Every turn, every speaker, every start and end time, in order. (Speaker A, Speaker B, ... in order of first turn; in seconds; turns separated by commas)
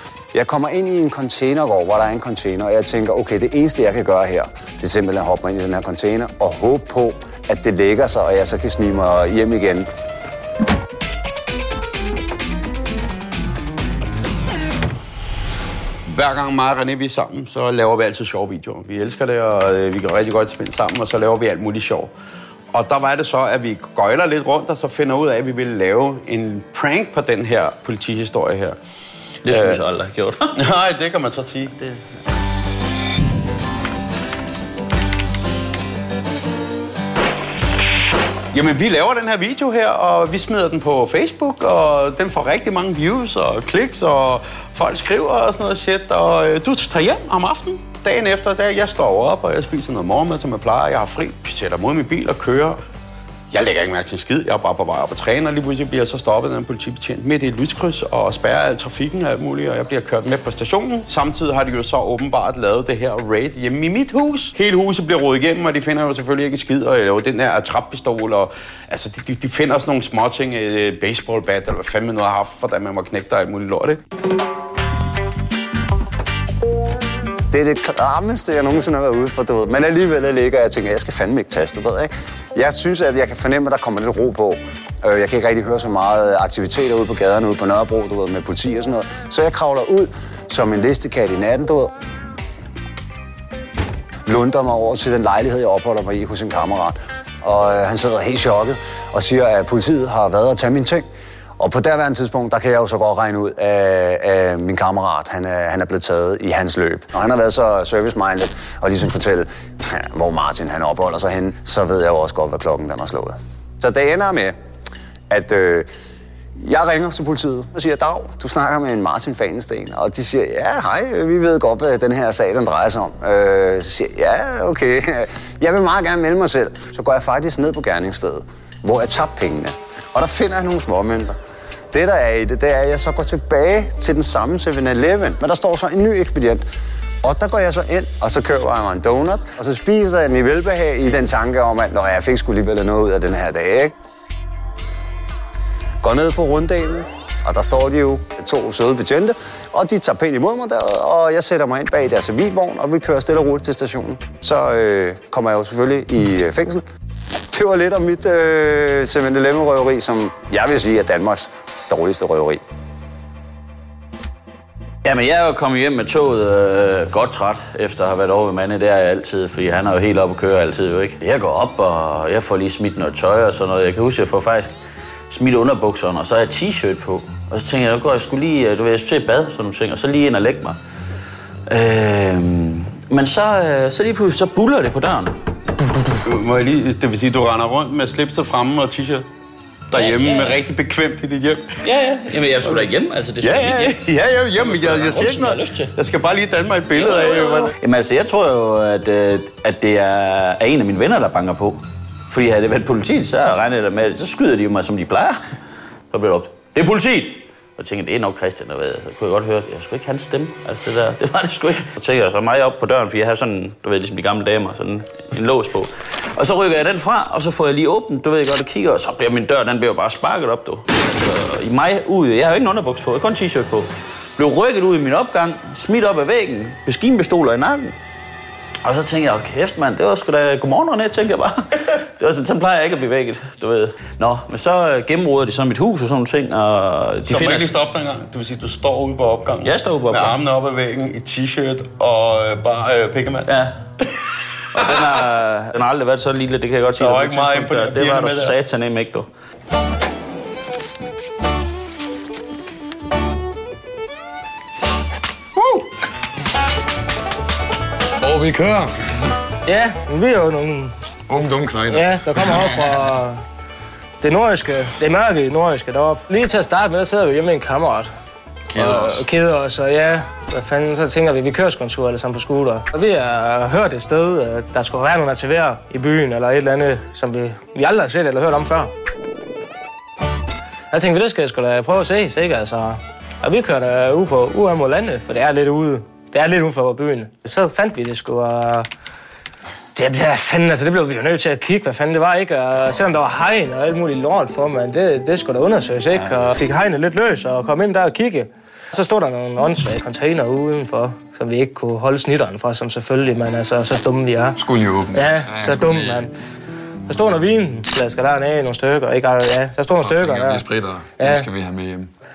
Speaker A: 0.3-9.9, Speaker B: 16.1-22.1, Speaker B: 22.7-28.8, Speaker C: 29.4-30.6, Speaker B: 29.5-29.8, Speaker B: 30.6-31.8, Speaker B: 38.5-52.8, Speaker B: 53.5-74.0, Speaker A: 77.5-91.9, Speaker A: 94.2-101.1, Speaker A: 101.6-114.6, Speaker A: 115.3-115.9, Speaker A: 116.6-131.4, Speaker A: 131.9-136.7, Speaker A: 137.2-143.9, Speaker A: 146.0-156.8, Speaker A: 157.5-162.6, Speaker C: 165.0-174.7, Speaker C: 175.3-180.8, Speaker C: 181.7-185.4, Speaker B: 186.2-189.3, Speaker B: 189.9-191.9, Speaker C: 189.9-190.6, Speaker C: 191.8-196.0, Speaker B: 192.6-192.9, Speaker B: 193.4-197.7, Speaker C: 196.9-205.6, Speaker C: 206.1-227.9, Speaker C: 228.8-237.8, Speaker B: 237.3-243.5, Speaker C: 239.6-240.3, Speaker C: 243.5-243.8, Speaker B: 244.1-245.2, Speaker C: 244.7-249.3, Speaker B: 246.9-248.6, Speaker D: 255.6-255.9, Speaker D: 258.2-258.9, Speaker E: 259.7-260.9, Speaker D: 261.3-262.9, Speaker E: 261.9-263.4, Speaker E: 264.2-268.1, Speaker D: 268.7-269.2, Speaker E: 268.8-278.9, Speaker E: 280.9-288.9, Speaker E: 289.9-304.6, Speaker D: 304.6-306.2, Speaker E: 305.1-306.3, Speaker E: 307.1-310.7, Speaker D: 309.9-312.1, Speaker E: 311.2-311.5